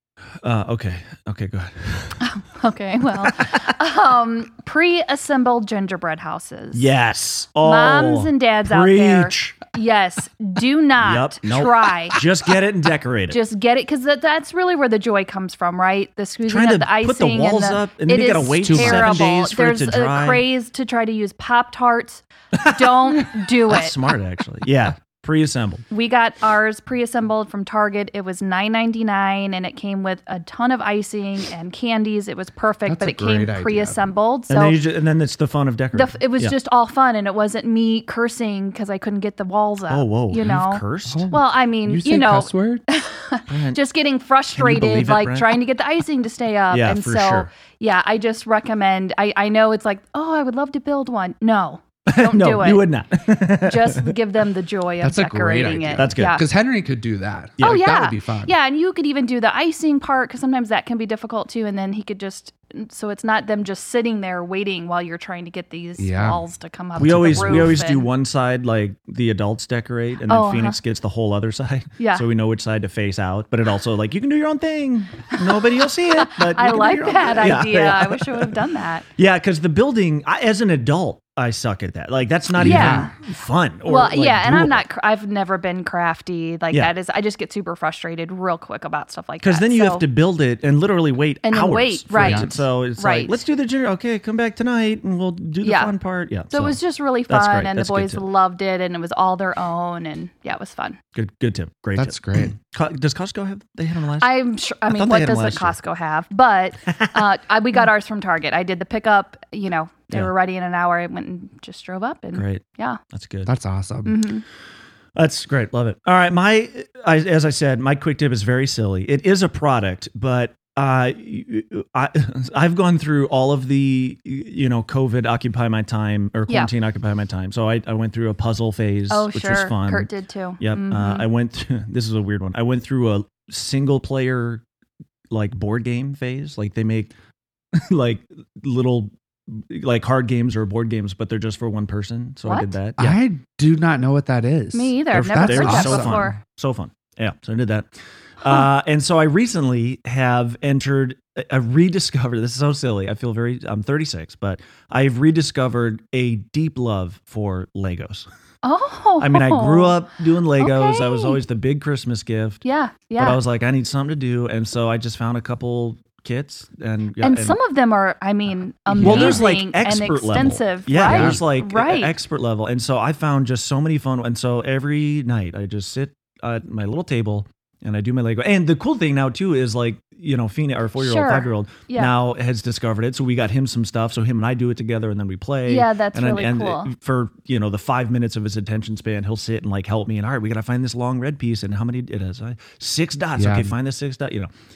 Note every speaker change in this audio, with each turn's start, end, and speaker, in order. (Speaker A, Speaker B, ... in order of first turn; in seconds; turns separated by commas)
Speaker A: 0.4-2.2, Speaker B: 2.2-6.9, Speaker A: 3.2-3.7, Speaker A: 6.7-9.6, Speaker B: 7.6-12.2, Speaker A: 11.0-13.4, Speaker B: 13.3-24.0, Speaker A: 16.5-20.4, Speaker C: 18.6-19.3, Speaker A: 22.5-25.8, Speaker B: 25.9-34.8, Speaker C: 32.9-34.0, Speaker A: 34.5-36.5, Speaker B: 35.9-52.9, Speaker A: 39.9-41.3, Speaker C: 41.1-42.8, Speaker A: 43.5-43.8, Speaker A: 44.5-45.5, Speaker A: 46.7-47.5, Speaker A: 52.1-54.1, Speaker B: 53.6-56.4, Speaker C: 55.0-58.5, Speaker A: 56.0-56.4, Speaker A: 57.6-57.9, Speaker B: 57.6-68.1, Speaker C: 66.0-66.4, Speaker A: 67.0-78.5, Speaker C: 67.0-67.8, Speaker B: 70.3-70.8, Speaker B: 72.0-72.2, Speaker B: 76.1-79.0, Speaker A: 79.2-84.8, Speaker C: 82.6-83.1, Speaker B: 82.6-83.1, Speaker B: 83.8-90.0, Speaker A: 89.4-98.2, Speaker B: 91.4-93.4, Speaker C: 92.1-92.5, Speaker B: 95.6-95.9, Speaker B: 96.5-101.0, Speaker A: 101.1-105.7, Speaker C: 101.9-102.5, Speaker B: 104.2-113.0, Speaker A: 106.9-107.2, Speaker A: 112.3-113.5, Speaker C: 113.5-114.2, Speaker B: 114.0-114.4, Speaker A: 115.2-130.1, Speaker B: 129.1-131.3, Speaker A: 130.6-134.6, Speaker A: 135.3-137.1, Speaker A: 137.7-143.2, Speaker B: 142.4-142.7, Speaker C: 143.0-146.3, Speaker B: 144.7-146.4, Speaker A: 145.4-147.9, Speaker A: 148.4-158.2, Speaker B: 158.6-160.0, Speaker A: 159.2-162.6, Speaker B: 160.6-161.4, Speaker B: 162.6-163.4, Speaker A: 163.2-167.6, Speaker B: 167.2-172.1, Speaker C: 168.9-169.4, Speaker A: 169.0-194.5, Speaker C: 170.4-171.4, Speaker B: 181.0-182.1, Speaker B: 185.7-186.9, Speaker C: 193.3-193.7